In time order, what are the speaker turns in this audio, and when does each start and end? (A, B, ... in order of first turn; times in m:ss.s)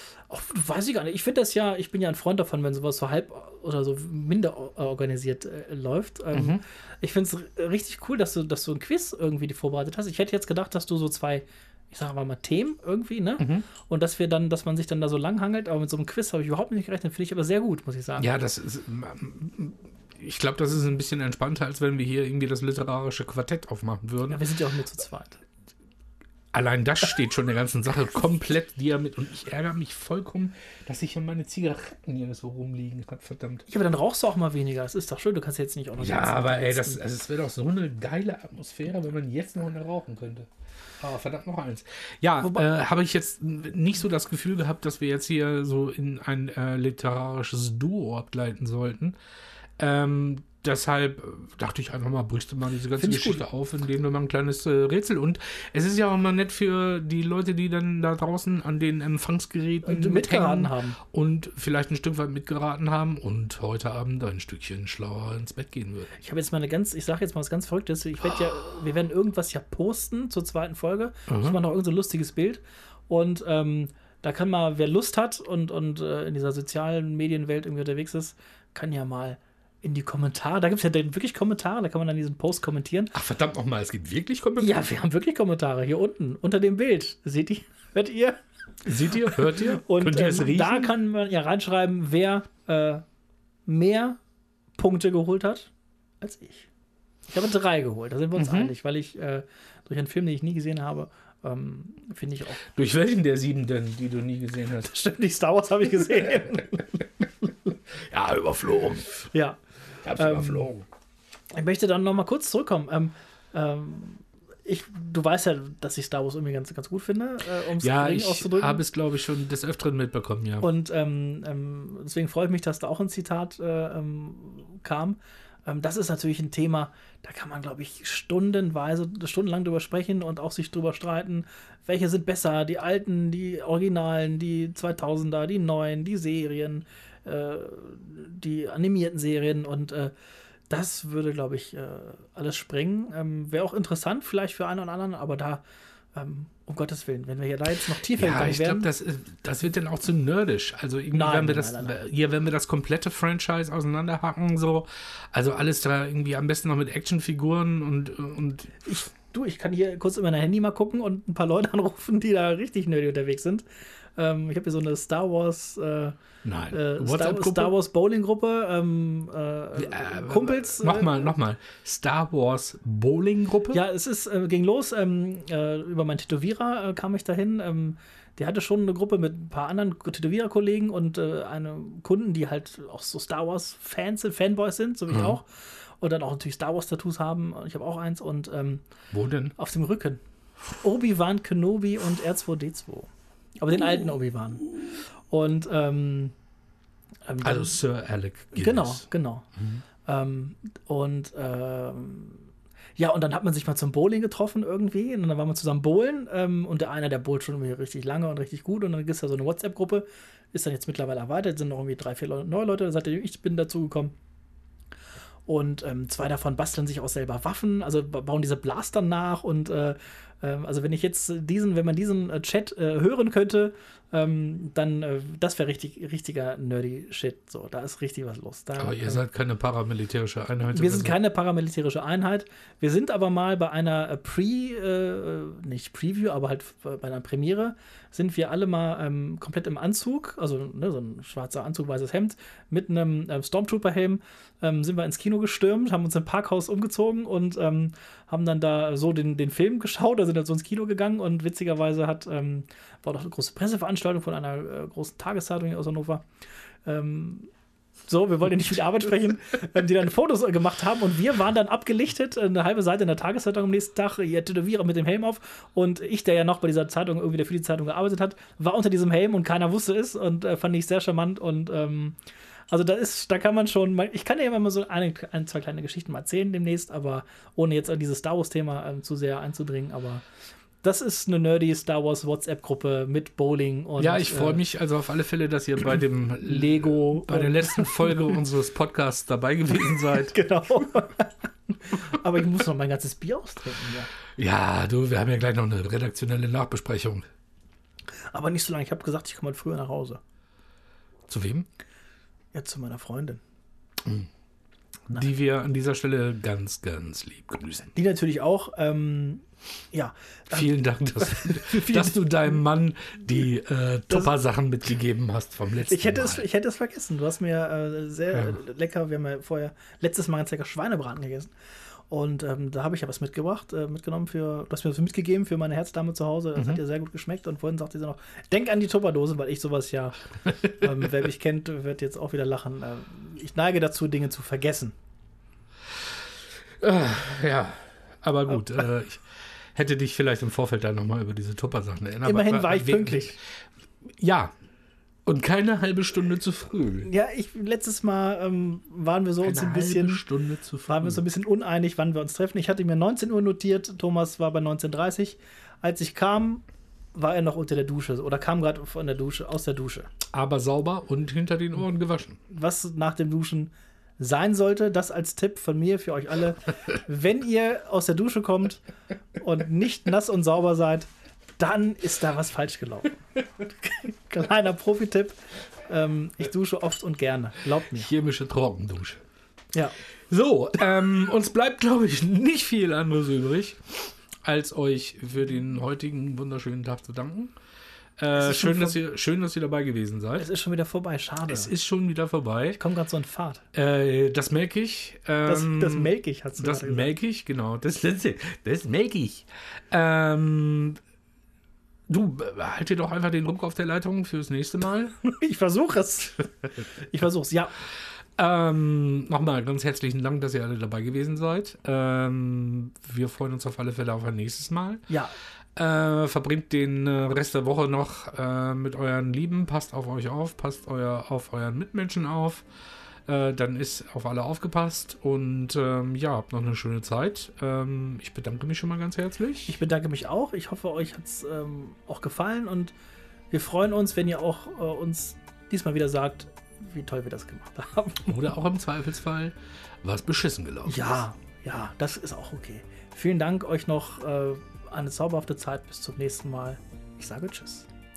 0:00.3-0:18.3 A
0:06.3-0:06.6 B
0:13.4-0:13.7 B
0:18.2-0:24.4 B
0:24.3-0:25.4 A
0:26.5-0:33.7 B
0:33.7-0:37.0 A
0:36.0-0:40.5 B
0:41.0-0:49.2 B
0:49.8-1:06.2 B
0:53.0-0:53.4 A
0:59.8-1:01.0 A
1:06.2-1:23.1 A
1:11.3-1:11.6 B
1:23.1-1:24.8 B
1:24.6-1:28.4 A
1:28.8-1:30.9 B
1:29.1-1:33.0 A
1:33.7-1:34.2 A
1:34.8-1:36.7 A
1:37.3-1:42.6 A
1:38.4-1:38.7 B
1:42.6-1:45.0 B
1:44.8-1:47.7 A
1:48.1-1:49.3 B
1:49.3-1:49.6 A
1:50.0-1:50.9 B
1:50.2-1:50.7 A
1:51.5-1:58.8 A
1:57.8-2:00.7 B
2:00.6-2:20.1 A
2:20.7-2:25.6 A
2:26.1-2:28.9 A
2:28.2-2:38.8 B
2:31.1-2:32.0 A
2:38.8-2:43.6 A
2:44.2-2:46.2 A
2:46.4-2:47.7 B
2:46.7-2:51.3 A
2:49.8-2:53.8 B
2:53.7-3:08.8 A
3:05.1-3:05.4 B
3:09.1-3:09.6 B
3:09.6-3:10.2 A
3:10.8-3:13.1 A
3:13.6-3:16.3 A
3:17.3-3:17.8 A
3:17.4-3:19.1 B
3:18.5-3:19.5 A
3:20.1-3:34.1 A
3:35.5-3:49.2 A
3:48.8-3:51.2 B
3:50.7-4:16.2 A
4:16.9-4:17.5 A
4:18.1-4:32.2 A
4:32.7-4:40.2 A
4:40.8-4:44.6 A
4:44.0-4:50.4 B
4:46.4-4:48.4 A
4:50.0-4:54.1 A
4:54.4-4:57.3 B
4:58.3-5:00.2 A
5:01.3-5:01.7 B
5:02.5-5:03.4 A
5:04.0-5:04.3 B
5:05.1-5:07.9 B
5:08.0-5:12.3 A
5:10.5-5:16.5 B
5:15.8-5:21.5 A
5:22.1-5:34.9 A
5:26.6-5:26.8 B
5:36.8-5:43.3 B
5:42.2-5:43.4 A
5:44.2-5:44.5 B
5:45.3-5:47.1 B
5:47.0-5:50.2 A
5:49.4-5:51.2 B
5:50.9-6:00.1 A
6:00.3-6:02.4 B
6:02.5-6:08.8 A
6:09.4-6:11.1 A
6:11.6-6:13.2 A
6:13.8-6:15.4 A
6:15.9-6:18.1 A
6:17.9-6:19.2 B
6:20.3-6:27.6 B
6:28.2-6:30.5 B
6:28.3-6:29.0 A
6:30.4-6:31.7 A
6:31.5-6:32.8 B
6:32.8-6:33.7 A
6:33.7-6:41.0 B
6:35.5-6:37.1 A
6:42.1-6:45.2 B
6:45.4-6:47.7 A
6:48.4-6:55.1 B
6:55.1-6:55.4 A
6:55.8-7:02.7 B
7:03.3-7:09.8 B
7:09.7-7:12.9 A
7:13.5-7:18.4 A
7:18.3-7:21.2 B
7:20.8-7:27.9 A